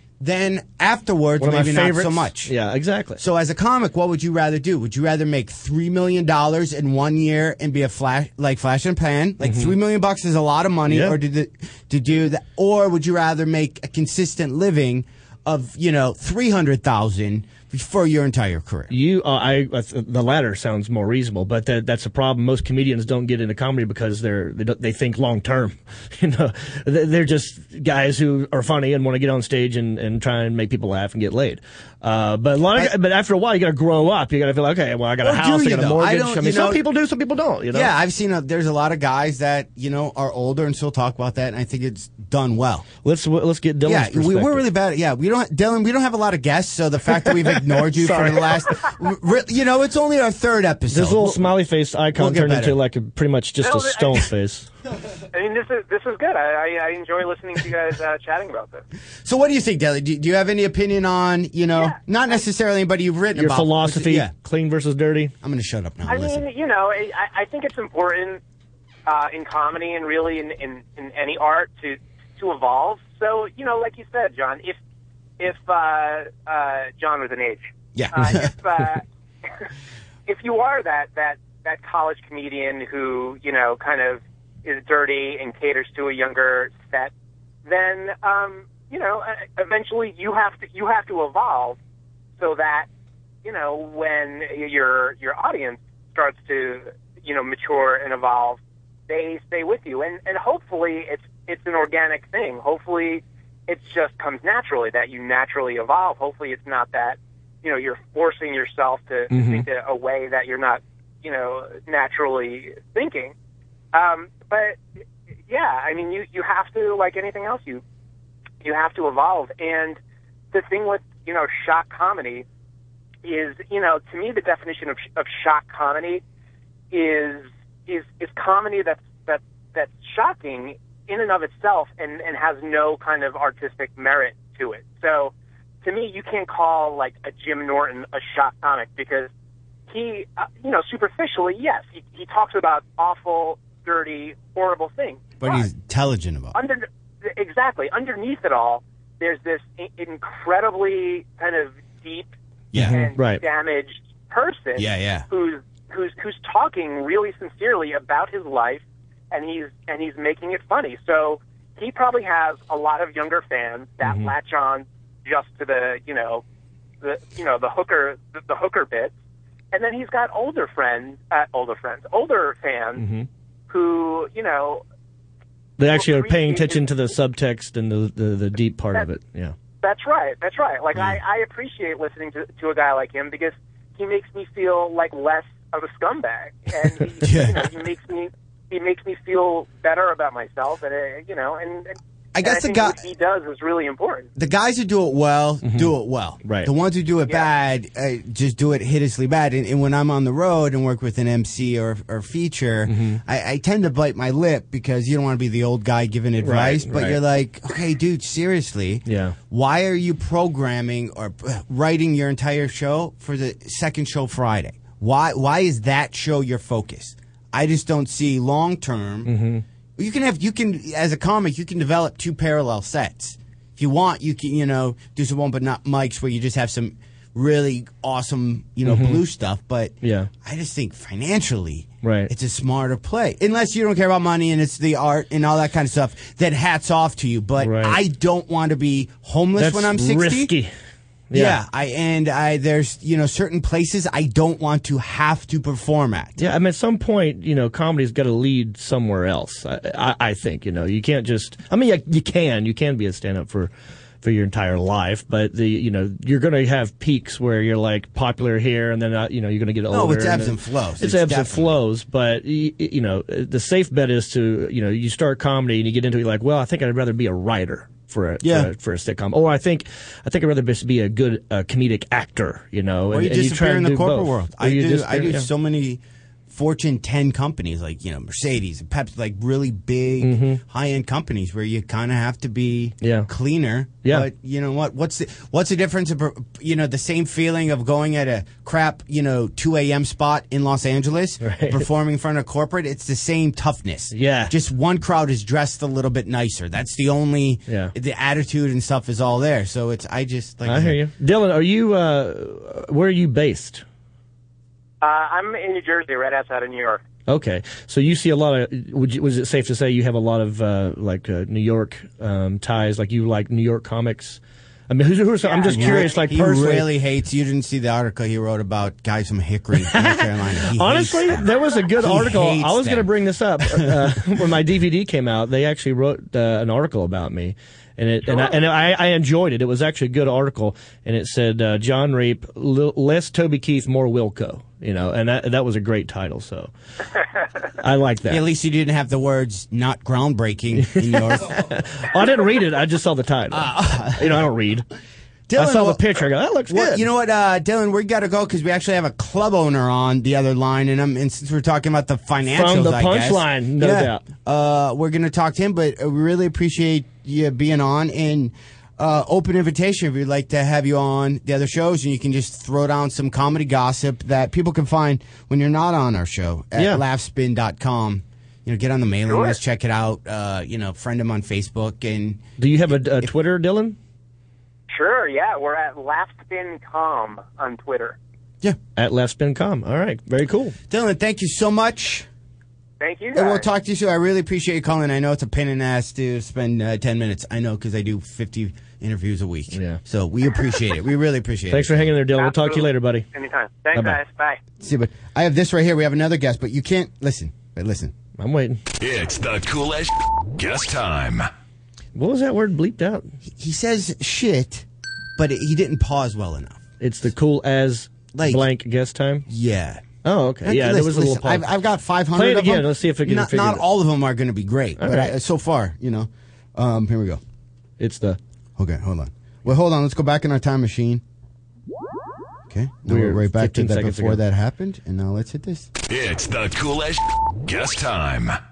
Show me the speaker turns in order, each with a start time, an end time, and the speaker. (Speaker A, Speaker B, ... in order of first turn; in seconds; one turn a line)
Speaker A: 0.2-2.5
Speaker B: 1.4-3.2
Speaker A: 3.2-18.9
Speaker B: 9.4-9.7
Speaker B: 10.9-11.2
Speaker B: 18.9-37.9
Speaker A: 35.2-36.8
Speaker A: 37.7-42.9
Speaker B: 43.0-44.6
Speaker A: 43.8-51.5
Speaker B: 47.2-48.6
Speaker B: 50.9-54.7
Speaker A: 52.1-52.8
Speaker C: 53.6-54.2
Speaker C: 55.3-58.8
Speaker A: 59.2-64.3
Speaker B: 63.3-65.3
Speaker A: 65.4-66.4
Speaker C: 66.0-68.4
Speaker C: 69.0-74.8
Speaker C: 75.4-79.0
Speaker A: 77.9-78.5
Speaker C: 80.3-87.1
Speaker C: 87.7-91.8
Speaker C: 92.4-92.9
Speaker C: 93.4-113.3
Speaker B: 109.3-109.7
Speaker C: 113.9-114.8
Speaker C: 115.5-117.8
Speaker C: 118.6-120.0
Speaker C: 120.5-122.4
Speaker C: 123.2-126.2
Speaker C: 126.9-135.3
Speaker C: 135.8-139.3
Speaker C: 139.9-145.6
Speaker A: 145.4-146.6
Speaker C: 146.5-152.3
Speaker A: 152.7-153.0
Speaker B: 152.7-153.4
Speaker C: 152.8-166.4
Speaker A: 154.8-155.3
Speaker B: 164.0-164.3
Speaker C: 167.0-169.1
Speaker C: 169.7-173.0
Speaker B: 173.0-173.3
Speaker C: 173.7-174.8
Speaker B: 175.8-179.5
Speaker C: 175.9-176.8
Speaker C: 179.8-194.3
Speaker A: 187.2-187.7
Speaker A: 192.3-193.0
Speaker A: 194.3-219.3
Speaker B: 195.6-195.9
Speaker B: 196.4-196.7
Speaker B: 202.9-203.2
Speaker B: 206.4-207.2
Speaker B: 209.1-209.3
Speaker B: 219.2-219.6
Speaker A: 220.0-240.5
Speaker B: 228.8-229.2
Speaker B: 230.0-230.3
Speaker B: 232.0-232.3
Speaker B: 237.6-238.0
Speaker B: 239.6-240.7
Speaker B: 241.3-241.6
Speaker A: 241.3-246.4
Speaker B: 246.4-253.7
Speaker B: 254.2-275.5
Speaker A: 259.9-261.8
Speaker A: 268.4-268.7
Speaker A: 273.1-301.0
Speaker B: 280.2-280.6
Speaker B: 283.0-283.3
Speaker B: 291.4-291.9
Speaker B: 294.1-294.5
Speaker B: 297.7-297.9
Speaker B: 300.6-303.8
Speaker C: 305.0-307.0
Speaker B: 307.3-316.9
Speaker C: 315.4-316.1
Speaker A: 315.7-323.1
Speaker B: 319.9-336.7
Speaker A: 323.6-324.1
Speaker B: 337.8-338.4
Speaker A: 338.2-341.6
Speaker B: 340.8-344.9
Speaker A: 343.5-344.5
Speaker A: 345.5-372.5
Speaker B: 345.5-347.0
Speaker B: 352.4-354.2
Speaker B: 366.8-367.0
Speaker C: 369.3-369.6
Speaker B: 372.6-374.0
Speaker C: 374.9-378.2
Speaker B: 378.9-380.7
Speaker A: 380.9-382.3
Speaker C: 383.0-383.6
Speaker A: 383.3-392.1
Speaker B: 389.7-390.0
Speaker B: 391.7-393.2
Speaker C: 392.4-394.6
Speaker B: 393.9-394.2
Speaker A: 394.8-398.1
Speaker B: 398.4-398.8
Speaker D: 399.0-401.5
Speaker B: 402.1-403.3
Speaker A: 403.4-404.9
Speaker A: 405.4-406.8
Speaker B: 407.0-409.4
Speaker A: 408.3-408.7
Speaker A: 409.5-410.0
Speaker B: 410.2-411.7
Speaker A: 410.6-417.4
Speaker B: 412.3-413.8
Speaker B: 415.0-415.3
Speaker B: 418.0-418.4
Speaker A: 418.8-421.2
Speaker A: 422.7-425.9
Speaker B: 423.1-424.4
Speaker D: 426.1-428.6